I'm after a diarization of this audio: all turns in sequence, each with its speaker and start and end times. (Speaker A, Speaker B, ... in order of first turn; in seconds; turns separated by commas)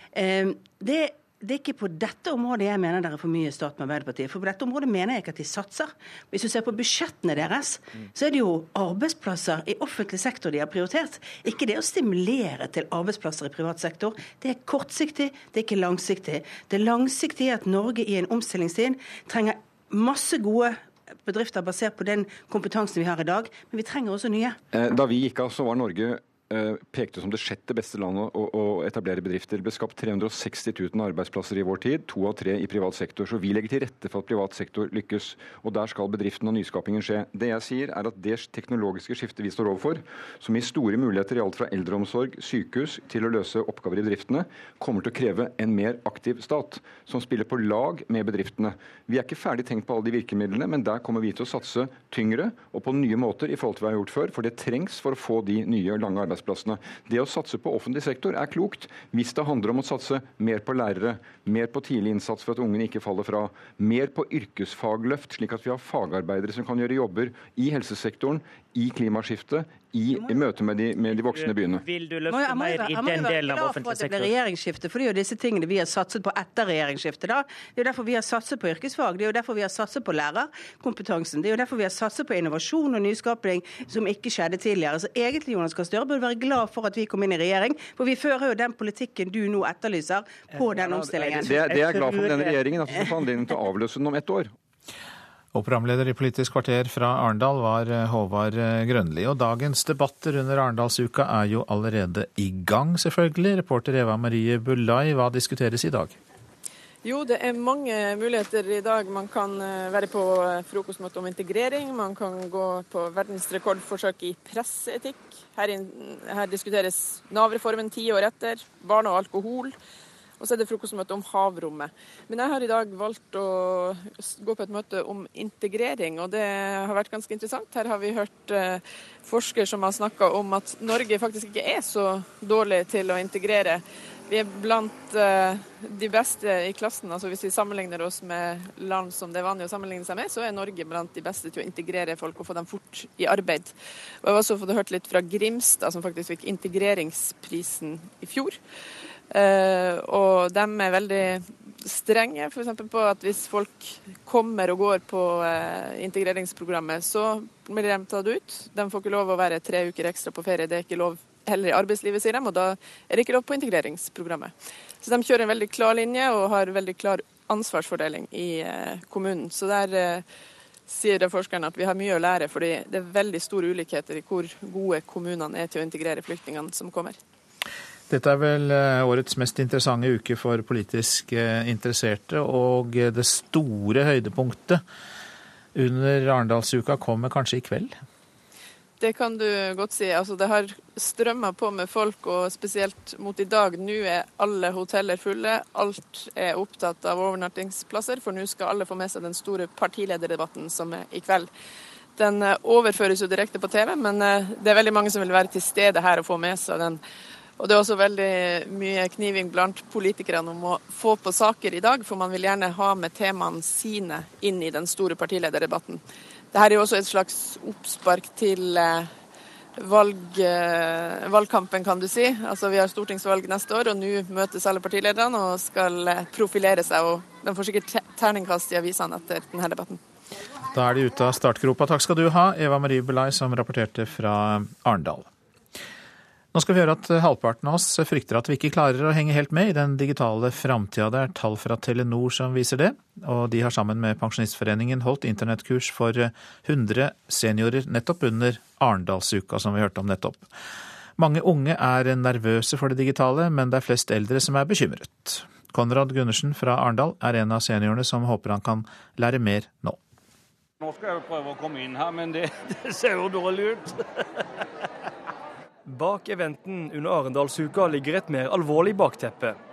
Speaker A: 0.1-24.6, Speaker B: 24.7-71.9, Speaker C: 71.1-74.3, Speaker A: 72.3-91.6, Speaker C: 90.6-92.6, Speaker B: 91.0-94.5, Speaker D: 95.5-106.2, Speaker E: 107.0-119.8, Speaker E: 120.4-148.6, Speaker E: 149.3-170.2, Speaker E: 170.9-177.2, Speaker D: 178.1-184.8, Speaker D: 185.8-187.9, Speaker E: 189.0-201.5, Speaker E: 202.2-207.0, Speaker E: 207.6-216.0, Speaker E: 216.5-219.1, Speaker E: 219.8-230.0, Speaker D: 230.7-235.3, Speaker D: 236.5-250.5, Speaker D: 251.2-260.0, Speaker F: 260.8-262.4, Speaker F: 263.0-263.8, Speaker G: 266.1-269.2